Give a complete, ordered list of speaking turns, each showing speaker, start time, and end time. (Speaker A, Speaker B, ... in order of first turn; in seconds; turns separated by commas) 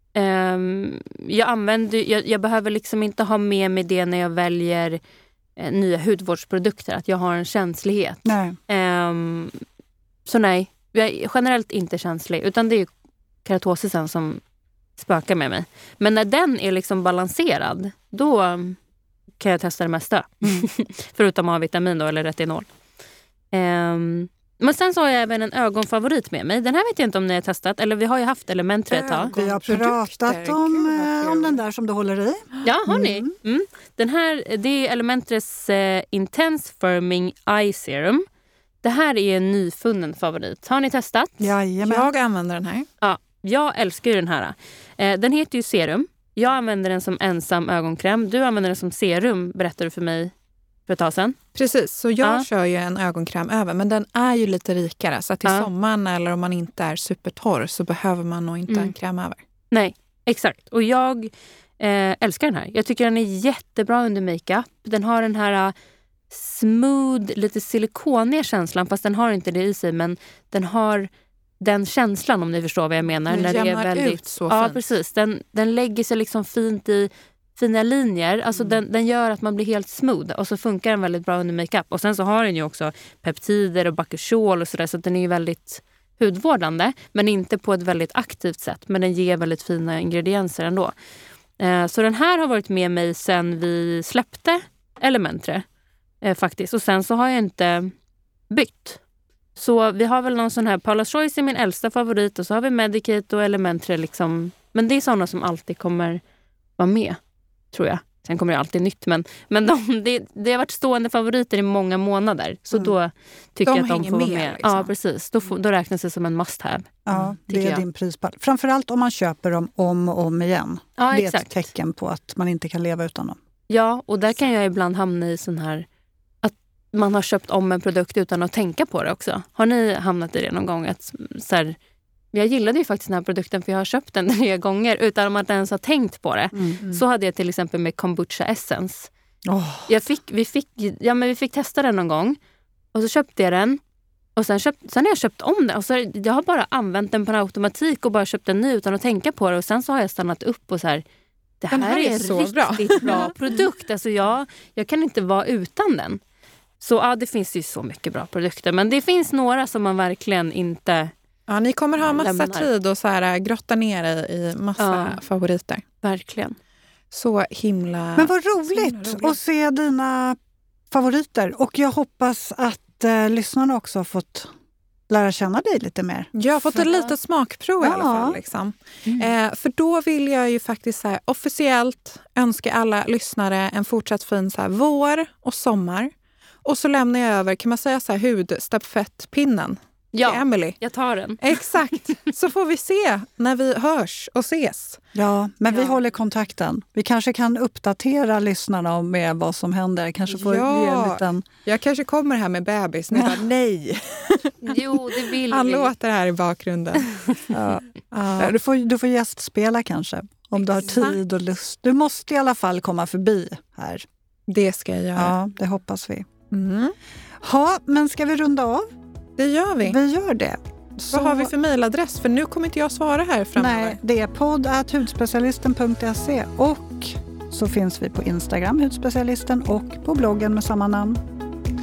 Speaker A: 0.1-5.0, Speaker A: 5.6-9.6, Speaker B: 8.2-8.6, Speaker A: 10.2-12.9, Speaker A: 13.4-14.4, Speaker A: 15.0-18.8, Speaker A: 19.4-22.7, Speaker A: 23.5-29.3, Speaker C: 28.9-31.6, Speaker B: 29.3-33.3, Speaker A: 32.6-38.2, Speaker A: 38.8-41.5, Speaker B: 41.4-42.1, Speaker C: 41.8-42.9, Speaker A: 43.0-50.3, Speaker A: 50.9-51.4, Speaker C: 51.5-59.4, Speaker A: 52.2-52.5, Speaker A: 59.7-65.8, Speaker A: 66.3-90.9, Speaker C: 73.3-75.0, Speaker A: 91.6-95.7, Speaker A: 96.2-97.9, Speaker A: 98.5-99.0, Speaker A: 99.6-106.2, Speaker A: 106.8-107.2, Speaker A: 107.7-117.8, Speaker C: 113.7-114.9, Speaker B: 117.1-123.4, Speaker A: 121.0-121.7, Speaker A: 123.7-125.9, Speaker A: 126.4-131.8, Speaker A: 132.3-139.1, Speaker B: 136.5-136.8, Speaker B: 139.5-139.9, Speaker A: 139.9-142.4, Speaker A: 142.9-143.8, Speaker A: 144.4-151.0, Speaker A: 151.6-156.2, Speaker C: 151.7-153.3, Speaker A: 156.8-161.1, Speaker C: 161.5-165.8, Speaker A: 162.0-162.7, Speaker A: 164.8-165.2, Speaker A: 166.0-166.6, Speaker C: 167.1-169.4, Speaker B: 168.2-170.4, Speaker B: 170.9-174.5, Speaker B: 175.1-176.3, Speaker C: 176.3-186.1, Speaker B: 177.8-178.4, Speaker C: 186.7-190.8, Speaker A: 190.1-191.4, Speaker C: 191.4-195.0, Speaker B: 195.2-201.4, Speaker A: 195.7-196.0, Speaker C: 200.3-207.2, Speaker B: 203.1-203.9, Speaker A: 204.6-205.9, Speaker B: 207.5-214.1, Speaker C: 208.1-208.6, Speaker C: 210.8-211.2, Speaker C: 214.5-215.3, Speaker B: 215.2-216.3, Speaker C: 216.5-217.0, Speaker B: 217.4-218.9, Speaker C: 219.4-220.0, Speaker B: 219.8-220.6, Speaker C: 221.0-224.0, Speaker B: 221.1-221.5, Speaker B: 223.6-231.2